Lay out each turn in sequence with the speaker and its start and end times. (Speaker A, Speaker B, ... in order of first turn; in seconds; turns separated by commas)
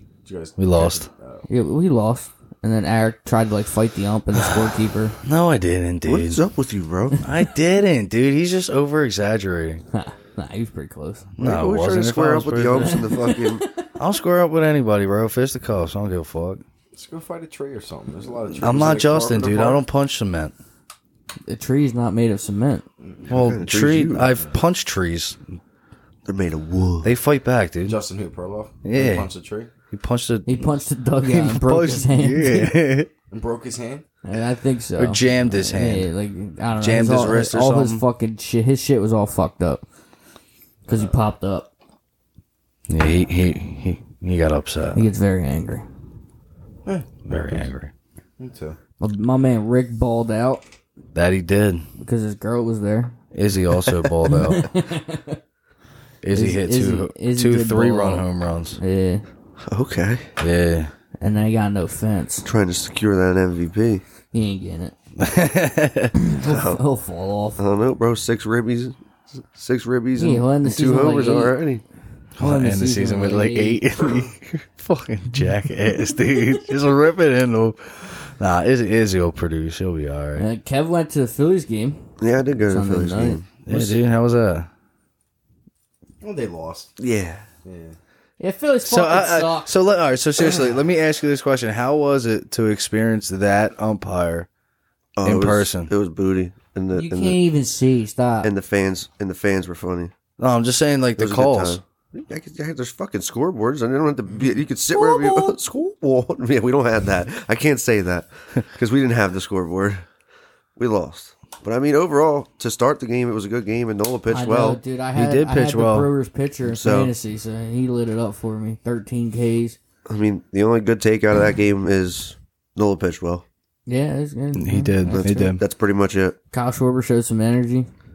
Speaker A: 0.2-1.4, Speaker B: 0.6-1.1, Speaker C: 1.5-5.2, Speaker B: 5.2-6.4, Speaker D: 6.0-7.2, Speaker B: 7.2-9.8, Speaker C: 9.9-11.3, Speaker B: 11.4-13.3, Speaker D: 11.4-13.6, Speaker C: 12.8-13.9, Speaker B: 13.9-16.6, Speaker A: 16.9-19.8, Speaker B: 18.6-20.5, Speaker C: 21.5-22.9, Speaker A: 23.0-23.4, Speaker D: 23.3-24.3, Speaker B: 23.3-25.6, Speaker D: 26.2-27.1, Speaker B: 27.0-28.0, Speaker A: 27.8-29.7, Speaker B: 28.8-29.3, Speaker B: 29.9-33.1, Speaker C: 30.4-32.8, Speaker A: 33.3-34.0, Speaker C: 34.2-39.8, Speaker B: 35.0-36.1, Speaker B: 36.8-38.0, Speaker C: 40.9-41.7, Speaker B: 42.9-45.0, Speaker C: 44.9-45.8, Speaker A: 46.8-47.7, Speaker B: 47.2-47.9, Speaker A: 48.4-48.8, Speaker C: 49.0-50.6, Speaker B: 51.1-51.8, Speaker C: 52.0-53.1, Speaker B: 53.3-54.7, Speaker C: 54.2-55.4, Speaker B: 56.2-58.8, Speaker C: 56.3-59.2, Speaker D: 59.6-60.3, Speaker B: 60.4-60.9, Speaker C: 61.2-62.5, Speaker D: 62.4-64.0, Speaker C: 64.3-65.0, Speaker B: 65.2-66.1, Speaker C: 66.1-67.6, Speaker D: 66.4-66.8, Speaker D: 67.6-69.0, Speaker D: 69.5-71.8, Speaker C: 70.2-71.6, Speaker B: 72.3-80.4, Speaker C: 72.4-73.8, Speaker C: 80.4-82.0, Speaker D: 82.2-84.0, Speaker C: 82.7-83.4, Speaker B: 83.7-84.7, Speaker A: 86.2-86.9, Speaker D: 87.0-87.4, Speaker A: 87.6-88.0, Speaker C: 88.4-89.7, Speaker B: 88.8-94.5, Speaker D: 95.2-97.4, Speaker B: 95.2-95.9, Speaker C: 96.9-98.5, Speaker D: 98.4-100.1, Speaker B: 100.4-101.8, Speaker D: 101.2-110.0, Speaker C: 104.9-105.6, Speaker D: 110.8-114.8, Speaker C: 114.3-119.8, Speaker B: 115.1-116.1, Speaker D: 116.6-117.1, Speaker D: 120.1-123.4, Speaker C: 123.8-125.6, Speaker B: 124.5-125.6, Speaker D: 125.0-126.4, Speaker C: 126.5-127.9